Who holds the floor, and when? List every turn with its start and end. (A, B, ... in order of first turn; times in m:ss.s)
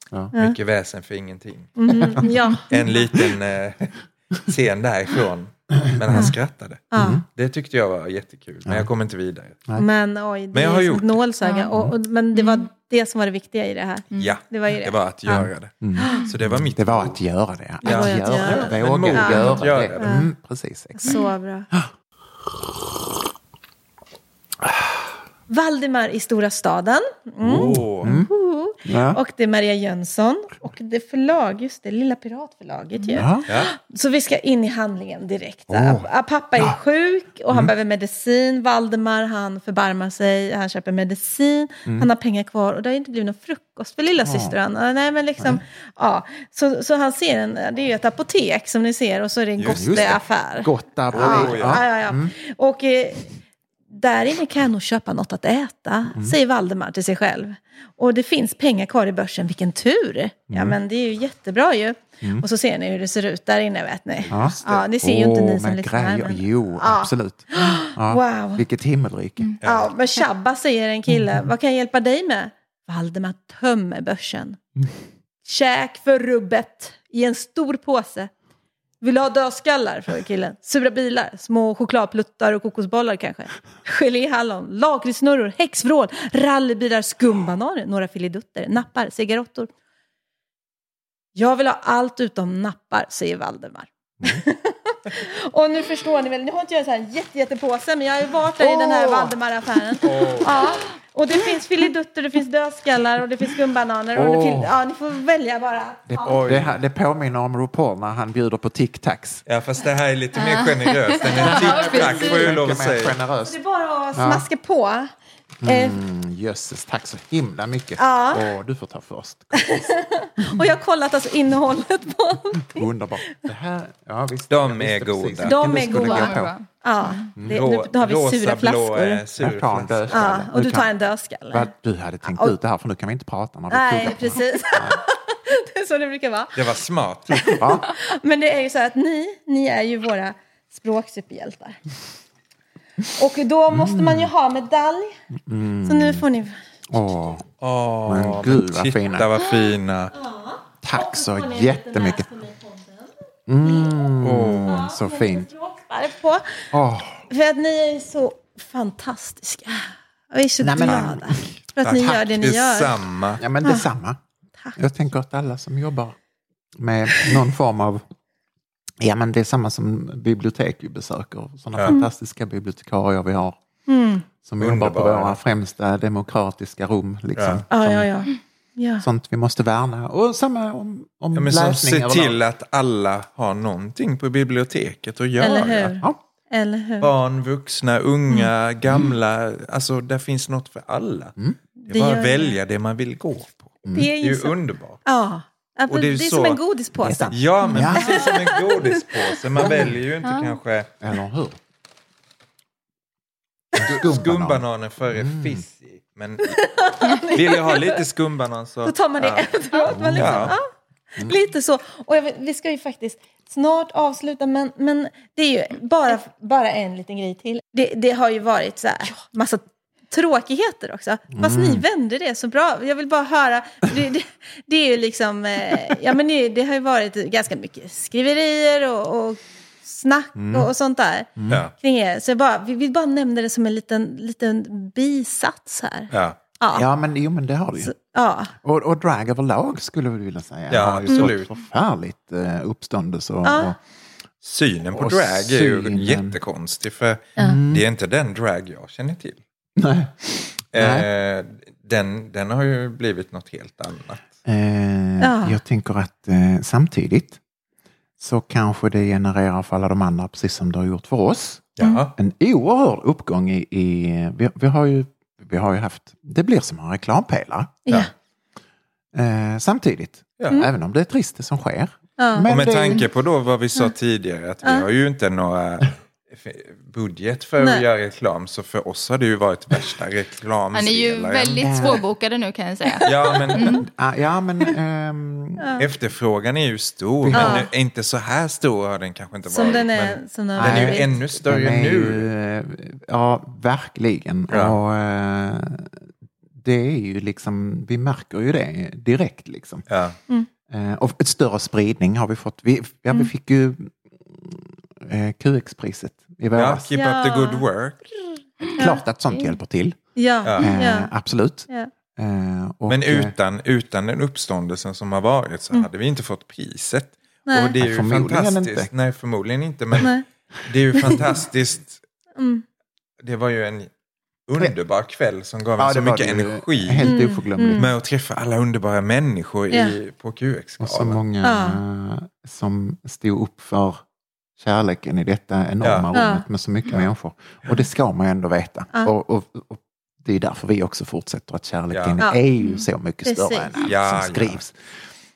0:00.3-0:09.6 A
0:01.8-0:02.8 B
0:01.9-0:02.3 C
0:05.8-0:06.3 C
0:06.9-0:07.2 B
0:07.0-0:07.2 C
0:09.8-0:15.4 B
0:10.5-0:11.2 A
0:11.4-0:11.7 D
0:12.3-0:12.7 D
0:14.2-0:17.2 A
0:15.3-0:21.2 C
0:16.0-0:16.3 B
0:16.0-0:16.3 D
0:17.8-0:20.2 A
0:17.8-0:20.3 B
0:21.0-0:21.7 B
0:24.6-0:24.9 C
0:25.5-0:53.3 B
0:27.4-0:28.3 C
0:27.4-0:28.1 A
0:28.8-0:29.2 C
0:33.1-0:33.4 C
0:33.5-0:33.7 A
0:35.7-0:36.8 C
0:44.2-0:44.6 C
0:49.6-0:50.2 A
0:49.7-0:52.3 C
0:51.1-0:51.9 A
0:53.9-1:08.6 B
0:56.1-0:56.4 C
1:00.5-1:00.8 C
1:04.2-1:04.9 A
1:04.3-1:09.5 C
1:09.6-1:09.9 A
1:09.6-1:14.7 B
1:11.1-1:11.5 C
1:15.4-1:18.3 B
1:19.0-1:29.7 B
1:31.4-1:46.4 B
1:38.6-1:39.4 C
1:40.0-1:40.8 A
1:44.1-1:44.7 C
1:46.1-1:49.4 C
1:46.2-1:46.8 A
1:49.4-1:53.2 A
1:50.4-1:52.5 D
1:51.3-1:53.6 C
1:53.4-1:55.1 B
1:54.1-1:54.5 C
1:55.6-1:59.9 C
1:55.6-1:56.0 B
1:58.0-1:58.5 B
1:59.6-2:02.8 B
2:00.4-2:00.6 C
2:02.6-2:06.6 C
2:04.5-2:05.9 A
2:05.4-2:09.2 B
2:05.8-2:07.3 D
2:07.4-2:07.6 C
2:07.5-2:10.4 A
2:09.4-2:10.9 C
2:10.1-2:11.7 B
2:11.5-2:15.0 C
2:12.3-2:12.5 B
2:13.7-2:16.7 B
2:16.6-2:17.6 A
2:17.3-2:21.8 B
2:17.4-2:17.9 C
2:23.1-2:25.1 B
2:23.7-2:24.3 C
2:25.4-2:26.3 C
2:25.8-2:26.6 B
2:26.9-2:27.5 C
2:27.6-2:30.1 A
2:28.0-2:29.3 C
2:30.1-2:33.1 B
2:30.8-2:32.3 C
2:33.5-2:35.5 C
2:34.2-2:34.9 A
2:34.6-2:36.6 B
2:36.7-2:37.3 C
2:37.3-2:43.0 B
2:40.6-2:41.6 C
2:41.8-2:43.4 A
2:43.4-2:44.2 C
2:44.7-2:46.2 C
2:46.8-2:48.0 C
2:49.0-2:53.6 C
2:53.9-2:54.2 B
2:54.4-2:58.1 C
2:54.6-2:55.4 A
2:57.4-2:57.6 A
2:57.7-2:59.0 B
2:59.0-3:02.4 C
3:01.3-3:06.0 A
3:05.4-3:07.1 B
3:07.0-3:11.4 A
3:11.8-3:12.6 B
3:11.9-3:15.0 A
3:13.8-3:14.1 C
3:13.9-3:19.9 B
3:15.9-3:16.6 A
3:17.0-3:18.1 C
3:17.3-3:20.9 A
3:17.6-3:18.3 D
3:19.6-3:19.9 C
3:20.2-3:20.6 D
3:21.0-3:21.6 C
3:23.8-3:25.7 C
3:23.8-3:26.6 A
3:26.4-3:28.0 B
3:27.2-3:29.5 A
3:28.8-3:30.7 B
3:29.9-3:30.6 C
3:30.2-3:30.6 A
3:31.2-3:56.9 B
3:41.3-3:41.8 C
3:50.4-3:50.7 C
3:51.4-3:51.6 C
3:56.1-3:56.4 A
3:56.7-3:57.9 C
3:57.8-3:58.5 B
3:58.6-4:03.8 C
4:00.7-4:01.5 A
4:03.4-4:03.7 B
4:04.4-4:09.4 A
4:04.9-4:06.4 C
4:07.4-4:07.8 C
4:09.8-4:11.1 C
4:10.7-4:14.2 A
4:14.4-4:17.4 C
4:15.2-4:15.6 B
4:18.2-4:27.8 C
4:21.8-4:22.1 A
4:29.1-4:33.1 C
4:30.4-4:30.7 A
4:32.2-4:33.0 B
4:32.4-4:42.0 A
4:40.7-4:43.8 D
4:41.6-4:42.0 C
4:43.0-4:43.8 A
4:43.6-4:45.8 C
4:45.6-4:45.9 B
4:45.8-4:52.3 A
4:47.2-4:47.6 C
4:47.3-4:47.7 B
4:49.5-4:51.1 B
4:50.6-4:56.1 C
4:54.5-4:54.8 A
4:56.6-4:59.9 C
4:59.9-5:00.2 A
5:00.7-5:06.9 C
5:06.5-5:08.4 A
5:06.9-5:07.6 B
5:08.7-5:10.0 C
5:08.8-5:09.5 B
5:10.2-5:11.1 B
5:10.6-5:13.3 C
5:12.9-5:22.0 A
5:17.5-5:17.8 B
5:17.8-5:18.9 C
5:21.0-5:21.2 B
5:22.4-5:22.6 B
5:23.2-5:23.9 A
5:24.5-5:31.2 A
5:25.8-5:27.9 C
5:27.0-5:27.8 B
5:30.8-5:34.0 C
5:31.4-5:31.8 B
5:34.6-5:45.0 C
5:35.8-5:36.1 A
5:36.1-5:36.4 B
5:41.9-5:42.2 A
5:43.2-5:43.8 B
5:43.8-5:44.6 A